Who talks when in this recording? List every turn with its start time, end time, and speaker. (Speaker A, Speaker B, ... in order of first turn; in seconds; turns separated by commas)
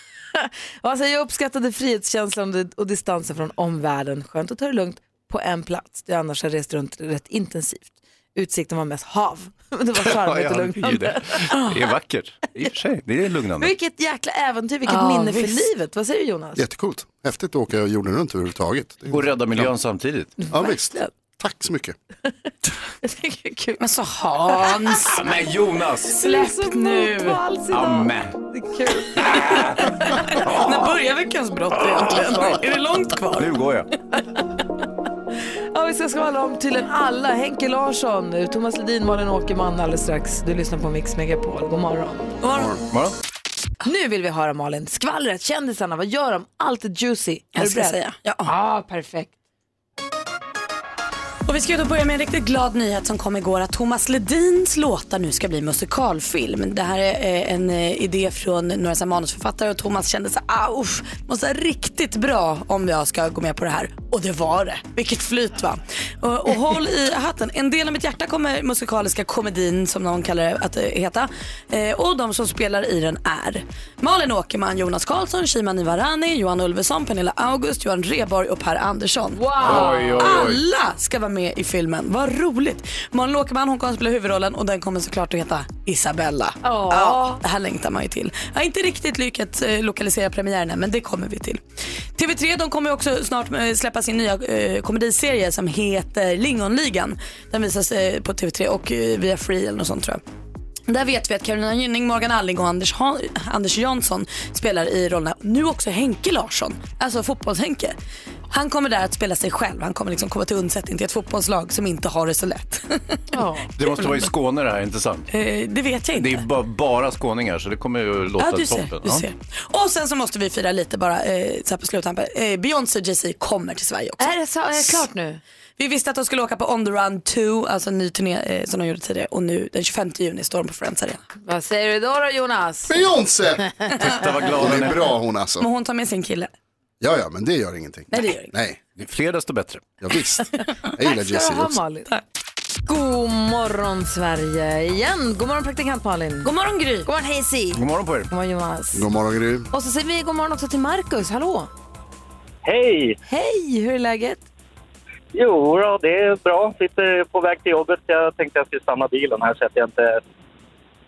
Speaker A: 0.3-11.7, Speaker B: 10.0-13.7, Speaker A: 13.6-16.6, Speaker C: 14.9-15.7, Speaker D: 16.6-19.7, Speaker B: 19.1-20.3, Speaker D: 20.5-22.0, Speaker A: 20.6-21.1, Speaker A: 23.0-23.8, Speaker C: 23.8-25.2, Speaker B: 25.0-26.2, Speaker A: 26.1-30.3, Speaker C: 26.2-27.4, Speaker B: 27.7-28.4, Speaker B: 29.2-29.8, Speaker C: 29.3-33.5, Speaker B: 33.4-33.9, Speaker A: 35.7-42.4, Speaker C: 42.4-42.7, Speaker A: 43.8-49.3, Speaker C: 47.5-48.5, Speaker C: 51.5-91.6, Speaker A: 79.3-80.4, Speaker B: 79.6-80.6, Speaker A: 86.6-87.4, Speaker C: 92.2-100.2, Speaker C: 100.9-107.9, Speaker C: 108.5-113.2, Speaker A: 113.3-113.7, Speaker B: 113.8-115.3, Speaker C: 114.0-114.2, Speaker C: 115.3-116.4, Speaker B: 116.2-119.2, Speaker C: 118.4-125.0, Speaker A: 124.2-125.4, Speaker C: 125.8-131.2, Speaker A: 131.4-133.0, Speaker D: 132.9-133.7, Speaker B: 134.1-135.0, Speaker D: 134.4-135.7, Speaker C: 135.6-136.5, Speaker D: 137.0-138.8, Speaker C: 138.1-138.5, Speaker B: 139.0-139.9, Speaker D: 140.0-141.8, Speaker A: 141.0-142.1, Speaker A: 142.9-146.5, Speaker C: 146.4-147.1, Speaker A: 147.0-149.0, Speaker B: 147.7-148.3, Speaker D: 148.9-149.7, Speaker A: 149.7-151.7, Speaker E: 152.6-153.2, Speaker A: 153.3-154.4, Speaker E: 155.3-160.2